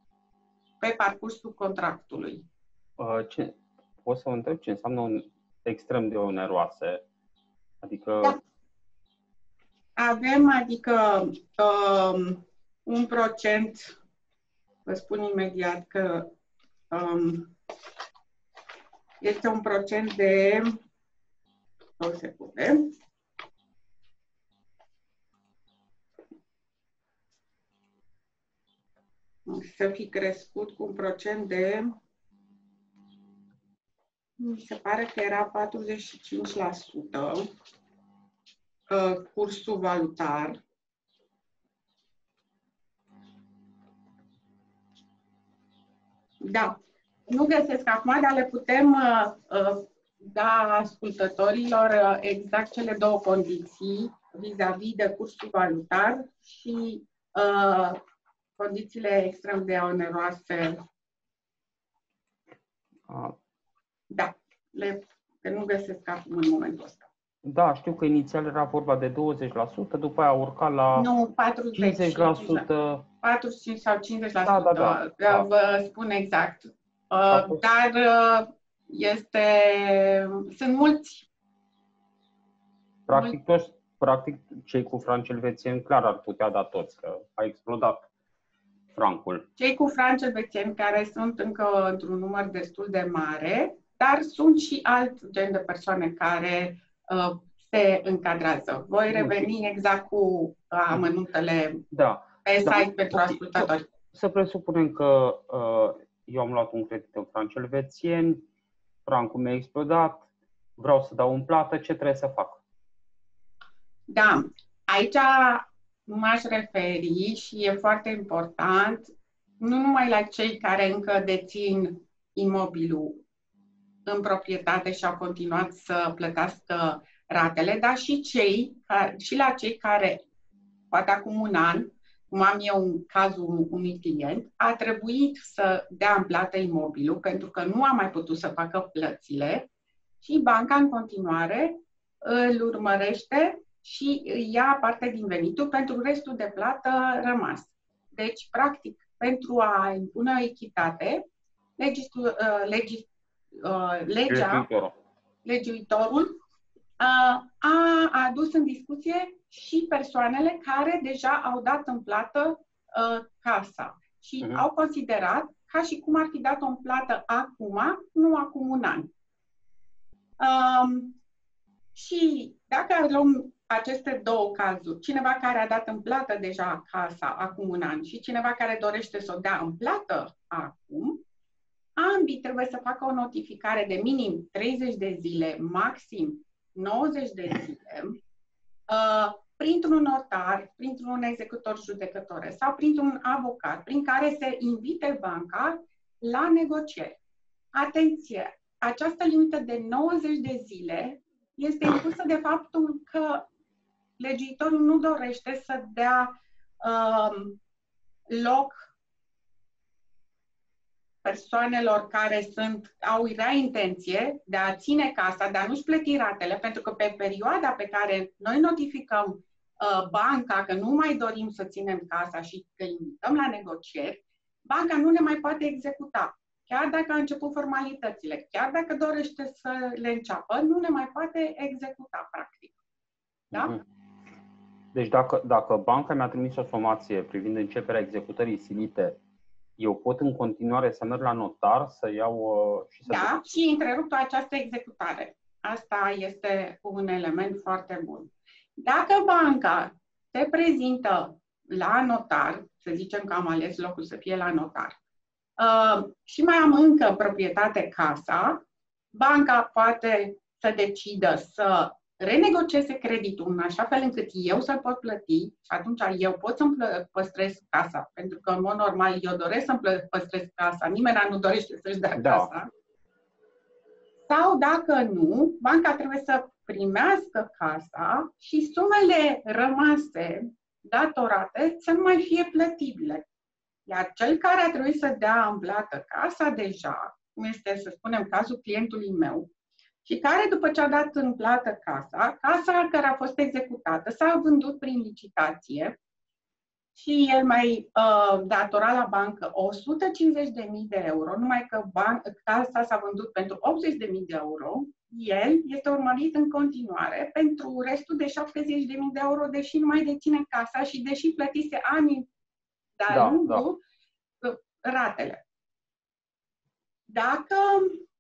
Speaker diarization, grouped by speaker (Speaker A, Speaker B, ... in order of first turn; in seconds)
Speaker A: 0.8-2.5, 10.0-14.0, 14.9-16.3, 16.9-17.5, 19.2-20.7, 22.0-22.9, 29.5-31.9, 34.4-37.5, 38.9-40.6, 46.4-46.7, 47.3-58.0, 58.6-60.8, 64.1-67.1, 70.9-72.7, 73.2-81.3, 83.1-83.4, 89.6-101.8, 102.5-103.8, 114.1-123.2, 124.1-130.2, 130.9-139.7, 140.2-151.2, 151.8-154.7, 155.4-156.3, 157.0-169.1, 170.4-171.2, 171.9-181.2, 182.0-188.2, 188.9-197.2, 197.7-203.4, 204.2-206.3, 206.8-207.6, 208.3-208.9, 211.2-232.8, 233.5-233.8, 243.1-255.0, 255.6-258.6, 259.1-272.7, 274.3-283.3, 283.9-289.5, 290.1-295.9, 296.9-312.3, 313.0-313.8, 314.4-315.4, 317.1-318.0
Speaker B: 3.0-7.0, 7.8-8.4, 63.1-63.4, 67.4-71.1, 71.8-73.0, 74.5-75.5, 77.3-77.6, 83.1-88.1, 88.9-89.5, 99.1-99.5, 101.9-108.4, 109.0-112.6, 154.3-154.9, 233.5-233.8, 234.9-239.2, 239.8-243.4, 272.2-272.5, 313.1-313.6